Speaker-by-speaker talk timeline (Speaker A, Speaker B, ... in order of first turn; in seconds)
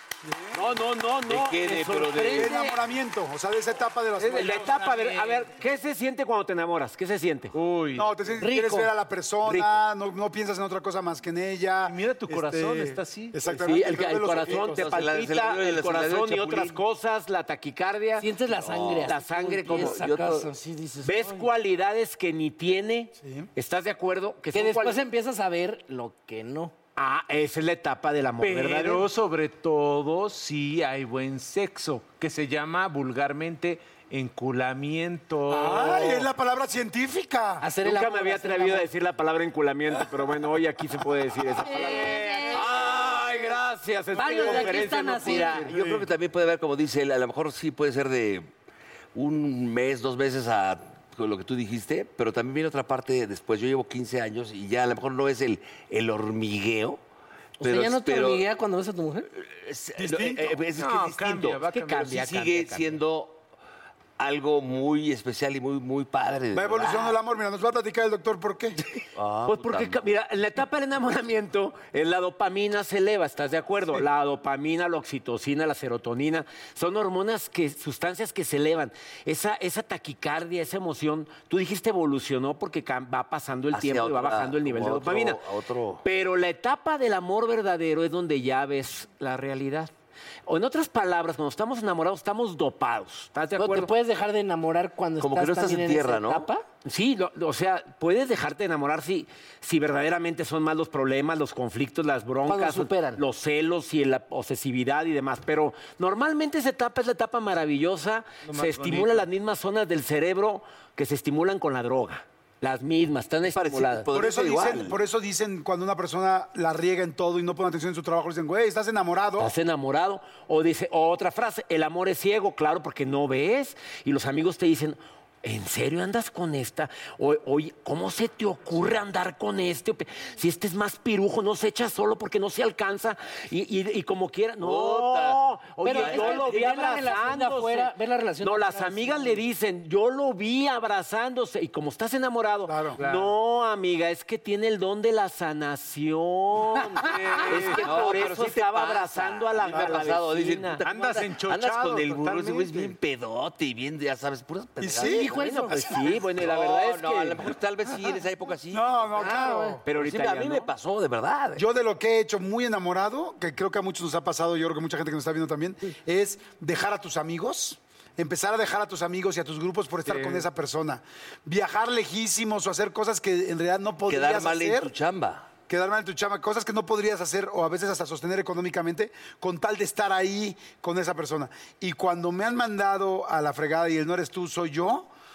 Speaker A: 0.2-0.7, 2.3-4.7, 7.9-15.2, 23.2-23.5, 35.5-37.7, 60.0-60.6, 66.5-68.8, 114.1-119.5, 142.7-143.0, 154.8-155.3, 158.7-159.8, 161.6-174.9, 175.7-185.1
Speaker B: 0.5-2.8, 4.3-7.5, 13.6-18.3, 19.1-20.0, 21.0-25.0, 27.0-29.1, 37.8-45.6, 61.6-63.0, 69.5-85.4, 86.0-89.9, 90.5-93.9, 96.8-114.1, 119.4-150.8, 155.3-157.5, 159.8-160.7
Speaker C: 1.2-2.6, 14.4-16.8, 18.5-20.5, 45.2-48.5, 49.1-57.0, 57.6-58.5, 59.3-63.4, 64.2-67.2, 69.1-70.1, 83.7-86.0, 95.2-96.5, 113.5-115.0, 134.6-136.6, 147.5-159.4, 159.9-161.6, 174.1-175.5
Speaker D: 4.2-5.5, 7.5-8.1, 11.8-13.7, 28.4-36.3, 45.7-46.0, 60.8-62.1, 108.4-109.2, 143.0-143.3, 147.0-148.0, 150.8-153.0, 170.1-170.4
Speaker E: 8.4-8.9, 18.2-21.5, 24.5-26.7, 37.6-38.9, 41.5-42.7, 44.1-45.7, 57.6-59.3, 93.5-96.6, 102.5-103.2, 135.8-139.4, 155.0-156.0, 159.2-159.8